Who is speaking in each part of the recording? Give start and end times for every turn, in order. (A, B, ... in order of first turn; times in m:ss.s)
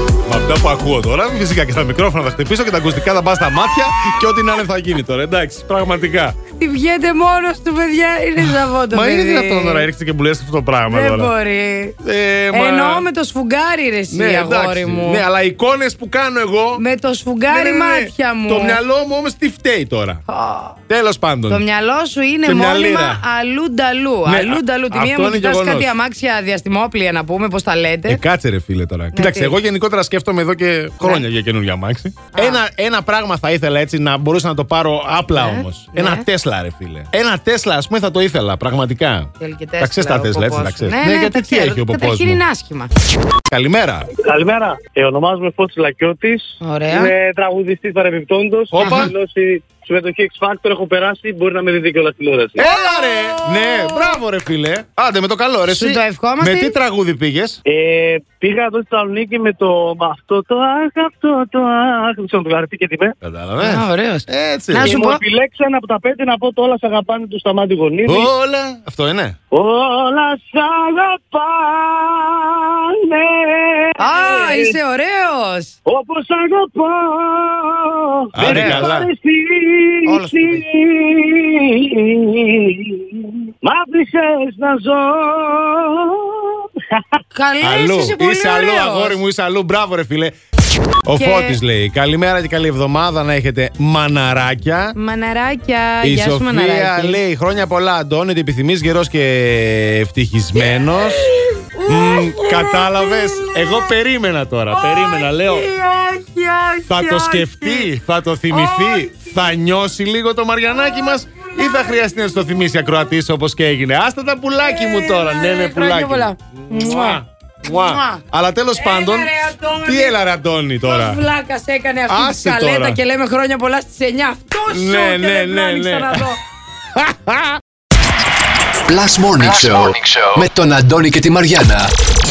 0:00.2-0:06.4 A
0:06.5-0:09.9 B
0:08.9-0:11.3 A
0:10.9-0:12.0 B
0:12.0-0:13.1 A
0:12.5-0:15.2 B
0:14.1-0:16.8 A
0:16.8-0:18.8 B
0:17.5-0:20.2 A
0:20.3-0:20.8 B
0:20.9-0:21.6 A
0:21.5-0:28.2 B
0:22.4-0:23.2 A
0:24.2-0:25.9 A
0:28.1-0:42.4 A
0:29.1-0:29.6 B
0:32.3-0:32.6 B
0:35.3-0:36.2 B
0:39.4-0:42.9 B
0:43.5-0:44.1 A
0:44.2-0:52.6 C
0:46.6-0:47.1 B
0:48.7-0:49.1 A
0:48.8-0:49.1 B
0:52.6-0:57.6 A
0:52.6-0:54.2 B
0:55.7-0:56.7 B
0:57.7-1:03.1 C
1:03.2-1:04.9 A
1:03.6-1:05.2 B
1:04.8-1:08.3 C
1:08.1-1:09.3 A
1:09.5-1:14.7 C
1:14.0-1:15.7 B
1:15.8-1:27.0 C
1:18.3-1:19.1 A
1:18.4-1:18.9 B
1:20.1-1:20.5 B
1:27.3-1:29.2 B
1:27.6-1:30.4 A
1:31.0-1:34.9 A
1:31.1-1:31.6 B
1:35.0-1:37.2 B
1:36.0-1:41.3 A
1:40.6-1:43.9 B
1:41.9-1:45.7 A
1:44.7-1:47.9 B
1:46.9-2:01.2 A
1:48.5-1:49.4 B
1:50.7-1:52.4 B
1:54.6-1:58.2 B
1:58.7-2:00.2 B
2:00.8-2:06.4 B
2:02.1-2:03.0 A
2:04.7-2:06.3 A
2:06.9-2:07.6 A
2:08.9-2:11.9 D